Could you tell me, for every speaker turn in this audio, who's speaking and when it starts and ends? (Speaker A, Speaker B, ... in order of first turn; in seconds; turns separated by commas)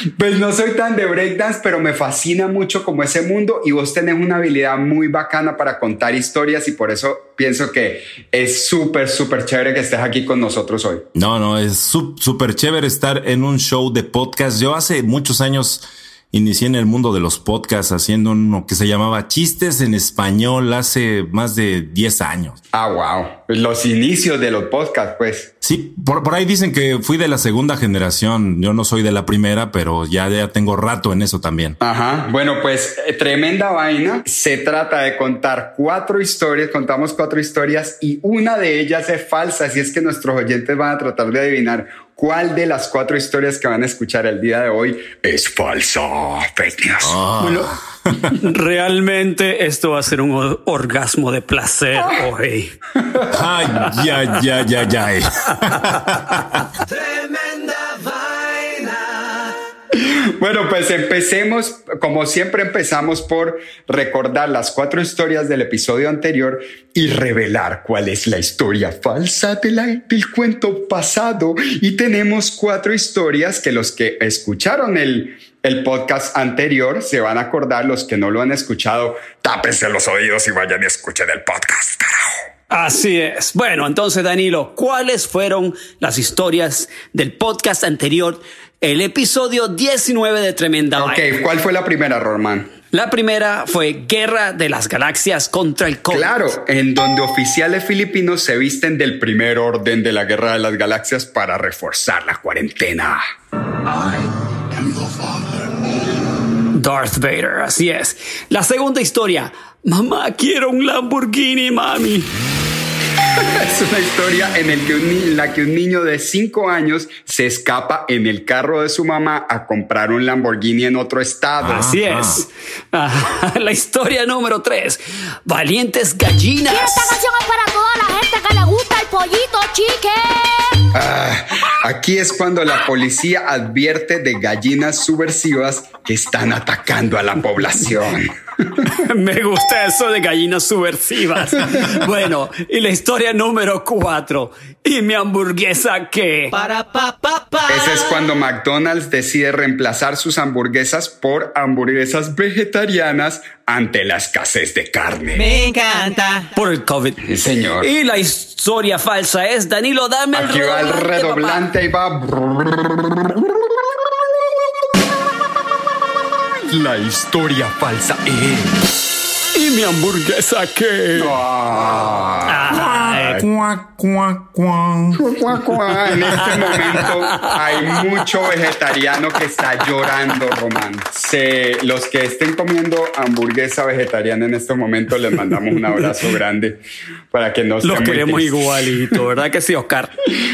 Speaker A: 0.1-11.0, Speaker B: 11.1-22.6, Speaker A: 22.7-25.5, Speaker B: 25.6-31.8, Speaker A: 31.8-47.2, Speaker B: 47.0-48.4, Speaker C: 47.4-47.7, Speaker C: 48.3-52.7, Speaker A: 52.9-53.9, Speaker B: 53.3-56.6, Speaker A: 59.9-82.4, Speaker C: 82.7-91.2, Speaker A: 91.0-92.7, Speaker C: 92.9-96.3, Speaker A: 96.1-103.2, Speaker C: 106.7-112.3, Speaker A: 113.3-121.9, Speaker B: 121.6-122.4, Speaker C: 121.7-127.2, Speaker D: 126.7-130.8, Speaker A: 130.9-138.9, Speaker C: 138.9-146.5, Speaker A: 141.6-141.9, Speaker E: 146.5-148.2, Speaker A: 147.7-155.5, Speaker E: 155.3-156.5, Speaker C: 156.5-157.2, Speaker A: 157.2-157.9, Speaker C: 157.8-161.6, Speaker A: 160.3-164.0, Speaker A: 166.7-168.8, Speaker C: 169.5-171.3, Speaker A: 171.1-172.8, Speaker C: 172.4-173.4, Speaker B: 172.7-175.2, Speaker A: 175.2-189.0, Speaker B: 176.3-176.9, Speaker C: 176.9-177.6, Speaker C: 187.8-190.1